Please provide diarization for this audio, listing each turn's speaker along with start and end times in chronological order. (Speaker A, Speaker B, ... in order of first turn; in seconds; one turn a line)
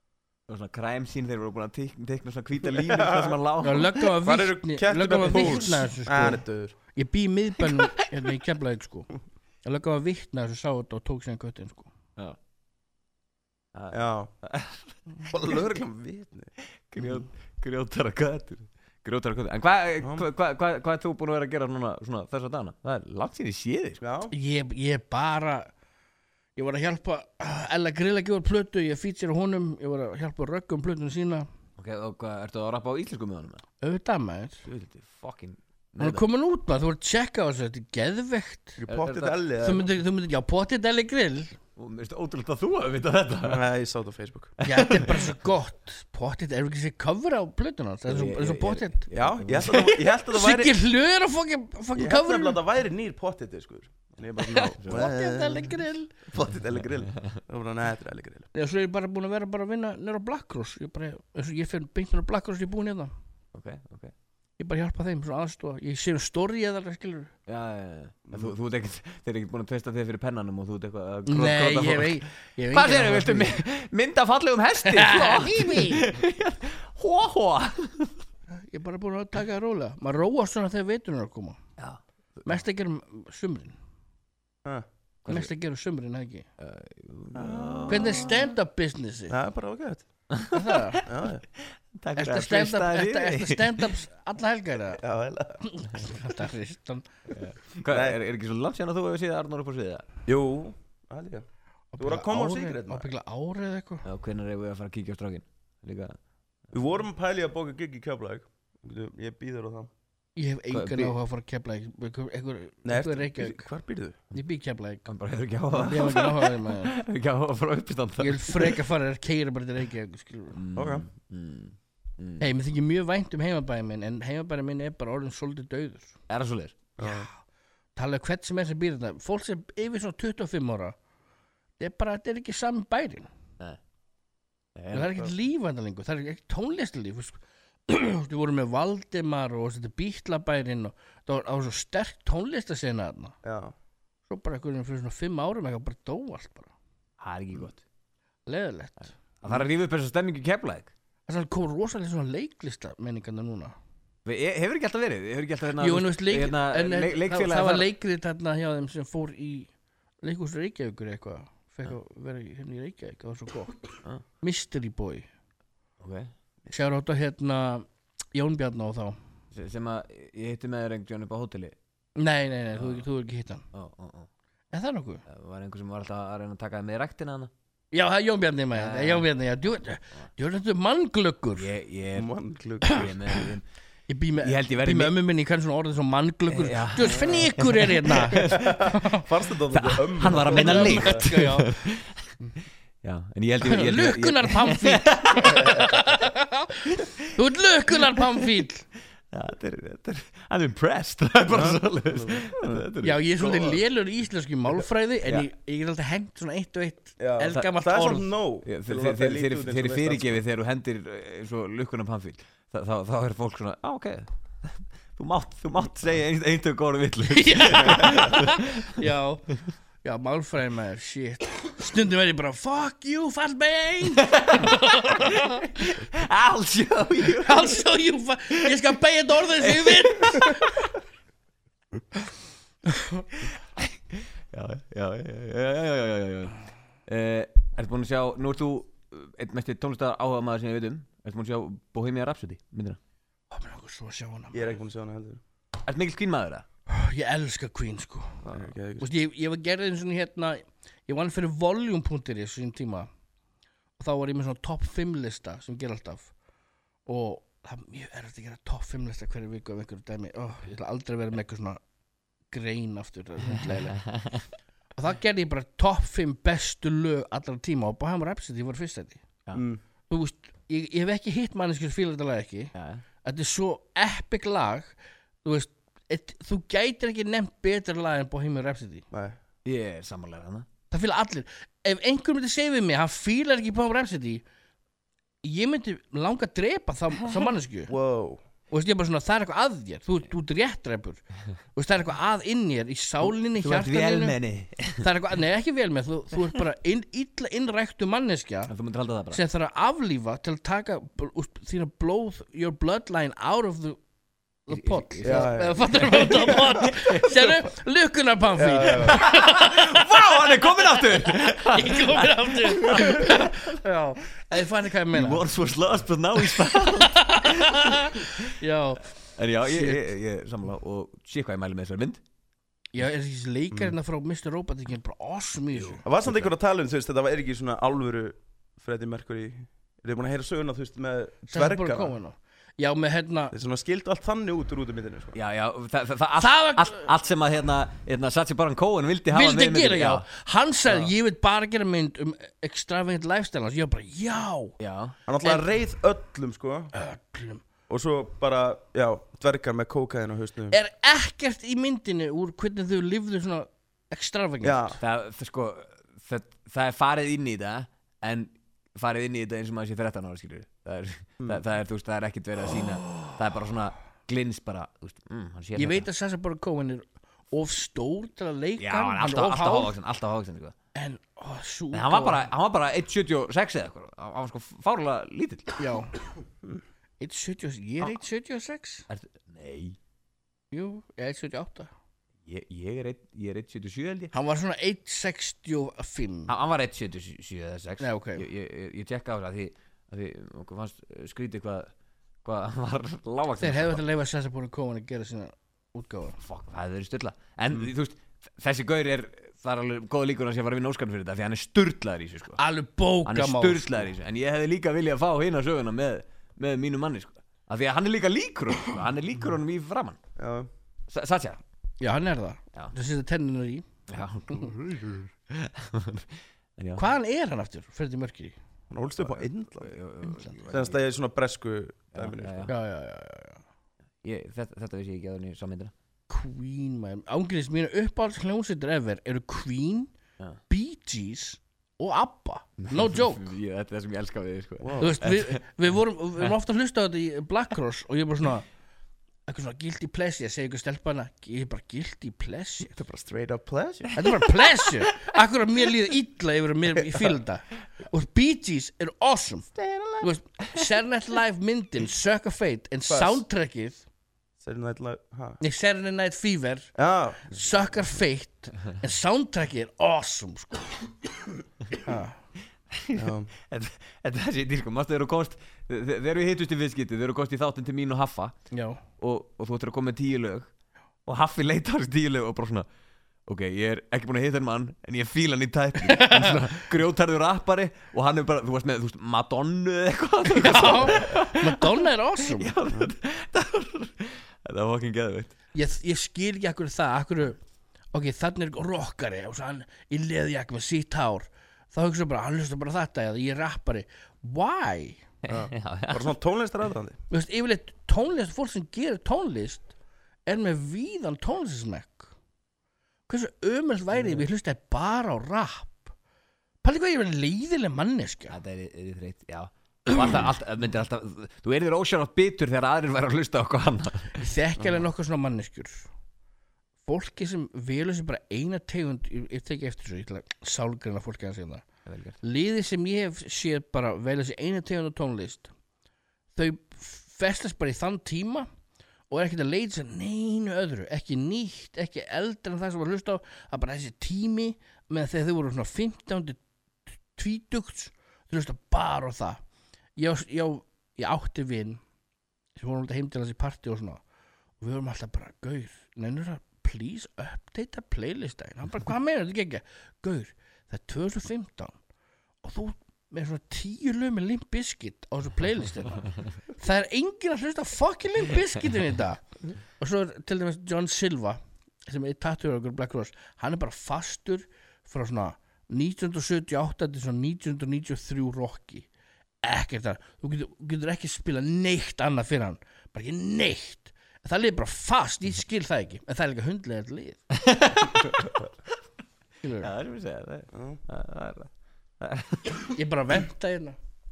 Speaker A: 0.5-4.1
Speaker B: 2.7-3.4
Speaker C: 3.6-9.1
Speaker B: 4.2-6.7
Speaker A: 5.2-5.8
Speaker A: 7.6-8.3
Speaker C: 9.6-11.9
Speaker A: 13.7-14.9
Speaker B: 13.9-14.3
Speaker B: 15.3-16.5
Speaker A: 16.9-24.0
Speaker B: 20.0-20.3
Speaker B: 24.0-24.3
Speaker C: 24.3-25.7
Speaker C: 26.6-31.5
Speaker A: 31.8-33.6
Speaker C: 33.8-34.6
Speaker A: 34.6-36.2
Speaker C: 36.0-38.8
Speaker B: 38.8-39.9
Speaker A: 38.8-39.4
Speaker C: 39.6-41.6
Speaker A: 41.8-43.6
Speaker B: 43.4-44.6
Speaker A: 44.6-45.4
Speaker C: 44.6-49.1
Speaker A: 48.1-49.9
Speaker B: 49.1-50.8
Speaker C: 49.6-52.6
Speaker B: 52.0-58.5
Speaker C: 54.5-56.1
Speaker A: 54.8-55.1
Speaker A: 56.7-57.4
Speaker C: 58.5-63.1
Speaker A: 63.5-64.1
Speaker C: 64.6-67.3
Speaker A: 67.5-78.2
Speaker B: 68.3-68.5
Speaker C: 71.3-73.6
Speaker C: 74.8-76.0
Speaker C: 78.6-81.6
Speaker C: 82.5-83.8
Speaker A: 85.2-85.5
Speaker C: 85.3-86.5
Speaker A: 86.6-88.5
Speaker B: 87.3-88.2
Speaker C: 87.9-89.3
Speaker B: 89.3-90.0
Speaker A: 90.3-91.0
Speaker C: 90.5-91.0
Speaker B: 91.1-91.4
Speaker A: 91.5-93.9
Speaker C: 92.2-95.0
Speaker B: 95.0-95.6
Speaker C: 95.6-97.0
Speaker A: 97.3-100.0
Speaker B: 97.9-98.2
Speaker B: 100.2-101.4
Speaker C: 101.9-104.0
Speaker B: 102.0-103.0
Speaker A: 104.0-106.2
Speaker B: 106.7-109.9
Speaker C: 110.3-113.6
Speaker A: 110.7-111.2
Speaker B: 112.8-114.2
Speaker C: 114.3-115.1
Speaker A: 115.0-118.8
Speaker C: 115.8-116.9
Speaker C: 118.2-120.6
Speaker A: 120.5-122.5
Speaker B: 120.8-121.0
Speaker C: 122.4-126.1
Speaker A: 126.3-126.8
Speaker B: 127.0-127.3
Speaker C: 128.0-130.9
Speaker C: 131.8-133.3
Speaker A: 134.8-135.3
Speaker C: 134.9-143.3
Speaker B: 143.4-143.7
Speaker C: 144.3-146.7
Speaker A: 147.2-147.8
Speaker C: 148.5-149.1
Speaker A: 149.4-150.9
Speaker C: 151.3-153.7
Speaker A: 154.2-157.9
Speaker C: 155.8-159.7
Speaker C: 160.2-165.2
Speaker A: 166.0-166.3
Speaker C: 166.7-169.2
Speaker A: 169.5-171.8
Speaker C: 172.2-173.6
Speaker A: 172.7-173.1
Speaker A: 173.7-174.3
Speaker C: 174.7-175.2
Speaker A: 175.2-177.5
Speaker C: 177.9-181.7
Speaker A: 178.7-179.3
Speaker A: 181.5-182.3
Speaker B: 182.1-183.2
Speaker A: 182.8-183.6
Speaker C: 182.8-183.4
Speaker C: 184.1-189.2
Speaker A: 184.4-185.1
Speaker A: 186.5-189.0
Speaker B: 187.1-187.4
Speaker B: 188.3-191.3
Speaker A: 189.7-192.3
Speaker C: 190.3-191.7
Speaker A: 193.0-196.1
Speaker C: 193.6-198.8
Speaker A: 196.9-197.3
Speaker A: 198.1-198.6
Speaker A: 199.3-203.8
Speaker B: 201.5-202.8
Speaker C: 203.0-208.3
Speaker B: 207.2-210.4
Speaker A: 208.6-219.0
Speaker C: 217.3-219.5
Speaker C: 220.0-225.9
Speaker A: 224.2-227.8
Speaker C: 227.3-230.8
Speaker A: 229.3-230.9
Speaker C: 233.0-233.2
Speaker A: 233.5-236.5
Speaker A: 237.1-243.0
Speaker C: 243.5-244.8
Speaker B: 244.5-245.4
Speaker A: 245.8-246.7
Speaker C: 246.9-248.4
Speaker A: 248.4-248.7
Speaker B: 248.5-249.1
Speaker C: 249.0-253.1
Speaker C: 254.0-256.3
Speaker C: 257.1-261.8
Speaker C: 262.5-264.0
Speaker A: 263.5-264.4
Speaker C: 265.0-269.2
Speaker B: 269.5-269.8
Speaker C: 270.1-272.7
Speaker A: 272.7-273.0
Speaker C: 273.2-279.0
Speaker A: 279.6-280.7
Speaker C: 280.9-284.4
Speaker C: 285.4-287.9
Speaker B: 287.9-288.4
Speaker C: 288.7-291.2
Speaker C: 291.7-294.4
Speaker A: 293.2-295.0
Speaker C: 295.0-298.7
Speaker A: 298.7-299.4
Speaker C: 299.3-304.0
Speaker C: 304.7-310.4
Speaker A: 304.7-307.5
Speaker B: 305.2-306.6
Speaker B: 308.5-309.2
Speaker A: 309.1-313.8
Speaker C: 311.0-315.4
Speaker A: 315.1-318.6
Speaker C: 316.4-319.1
Speaker A: 319.4-322.2
Speaker C: 319.6-320.1
Speaker C: 322.9-326.0
Speaker A: 325.7-326.5
Speaker B: 326.0-332.1
Speaker C: 331.5-333.5
Speaker B: 333.5-335.4
Speaker A: 335.3-340.3
Speaker C: 336.4-337.1
Speaker C: 339.3-344.8
Speaker A: 344.8-345.1
Speaker B: 345.3-346.9
Speaker C: 345.4-345.7
Speaker C: 346.9-347.6
Speaker B: 347.9-350.8
Speaker C: 350.7-355.0
Speaker B: 354.6-355.0
Speaker A: 355.0-366.1
Speaker C: 365.8-369.9
Speaker A: 368.8-370.7
Speaker C: 370.9-372.5
Speaker A: 371.9-375.9
Speaker C: 375.8-376.1
Speaker C: 377.2-379.1
Speaker A: 379.1-380.0
Speaker C: 380.7-381.9
Speaker A: 382.4-384.3
Speaker C: 384.3-386.5
Speaker A: 386.5-391.9
Speaker C: 388.0-388.4
Speaker A: 392.4-394.0
Speaker C: 393.6-396.4
Speaker A: 396.4-402.6
Speaker C: 402.6-404.0
Speaker A: 403.2-410.2
Speaker B: 410.4-410.7
Speaker A: 411.1-411.6
Speaker C: 412.0-413.9
Speaker A: 414.1-417.1
Speaker C: 417.0-418.6
Speaker B: 418.9-420.0
Speaker A: 419.2-421.0
Speaker B: 420.7-422.7
Speaker A: 422.1-422.7
Speaker C: 422.7-423.6
Speaker A: 424.2-425.9
Speaker C: 426.3-430.1
Speaker C: 430.7-433.5
Speaker A: 432.8-435.6
Speaker B: 434.8-435.2
Speaker C: 435.0-438.7
Speaker C: 439.5-442.9
Speaker B: 442.9-444.1
Speaker C: 444.1-449.7
Speaker A: 444.5-444.9
Speaker B: 449.8-450.3
Speaker C: 450.2-454.0
Speaker B: 453.1-453.4
Speaker B: 454.6-455.6
Speaker C: 455.6-456.9
Speaker B: 457.0-457.6
Speaker C: 457.5-461.1
Speaker C: 462.0-462.4
Speaker A: 462.9-468.5
Speaker B: 463.1-463.5
Speaker C: 468.7-469.0
Speaker A: 469.2-470.7
Speaker A: 471.2-472.9
Speaker A: 473.4-485.5
Speaker C: 476.0-476.6
Speaker C: 480.6-482.7
Speaker C: 485.7-487.6
Speaker C: 488.1-495.2
Speaker A: 495.4-496.3
Speaker B: 495.5-497.2
Speaker C: 497.3-499.9
Speaker C: 500.4-502.3
Speaker C: 503.3-506.1
Speaker C: 506.8-508.6
Speaker A: 508.5-514.4
Speaker C: 514.4-516.1
Speaker C: 517.0-521.9
Speaker A: 522.0-522.4
Speaker C: 522.4-525.7
Speaker C: 526.5-528.7
Speaker C: 529.3-536.6
Speaker C: 537.3-539.6
Speaker C: 540.1-542.0
Speaker C: 542.8-544.2
Speaker C: 544.8-552.0
Speaker C: 552.6-559.4
Speaker C: 560.0-569.1
Speaker C: 569.6-577.4
Speaker A: 577.5-578.7
Speaker C: 579.6-579.9
Speaker A: 579.8-582.9
Speaker B: 580.7-581.0
Speaker C: 582.9-584.0